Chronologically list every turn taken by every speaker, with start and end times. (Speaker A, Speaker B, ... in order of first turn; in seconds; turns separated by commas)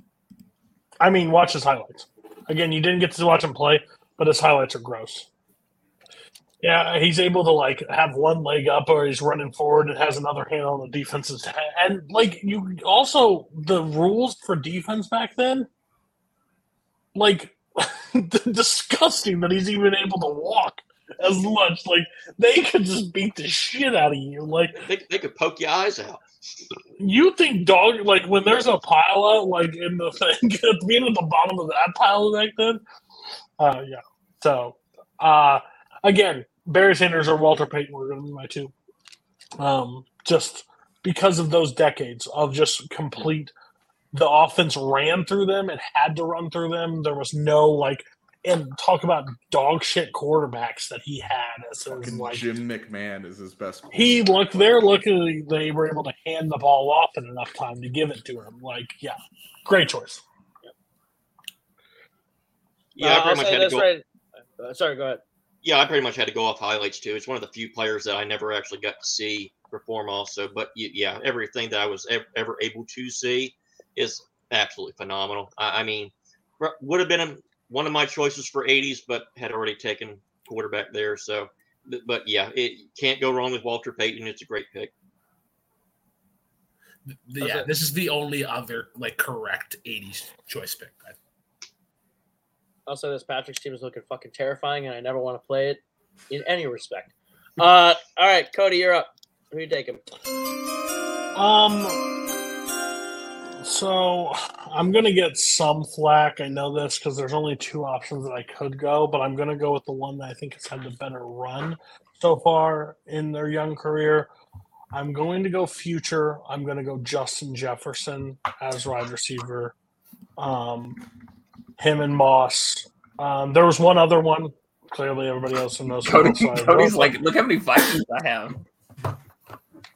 Speaker A: 1.0-5.3, Speaker A: 6.6-15.7, Speaker A: 17.1-24.8, Speaker B: 24.8-26.2, Speaker A: 27.0-32.8, Speaker A: 33.6-38.7, Speaker A: 39.6-43.5, Speaker A: 44.1-52.5, Speaker C: 51.9-54.9, Speaker A: 53.9-60.2, Speaker B: 62.9-63.9, Speaker D: 63.0-64.0, Speaker D: 64.6-65.2, Speaker B: 65.6-84.9, Speaker E: 87.1-91.2, Speaker D: 87.4-87.7, Speaker D: 92.8-100.0, Speaker A: 101.3-102.0, Speaker A: 103.6-114.3, Speaker A: 114.9-119.7, Speaker A: 120.4-121.0, Speaker A: 121.8-127.1, Speaker F: 126.0-128.6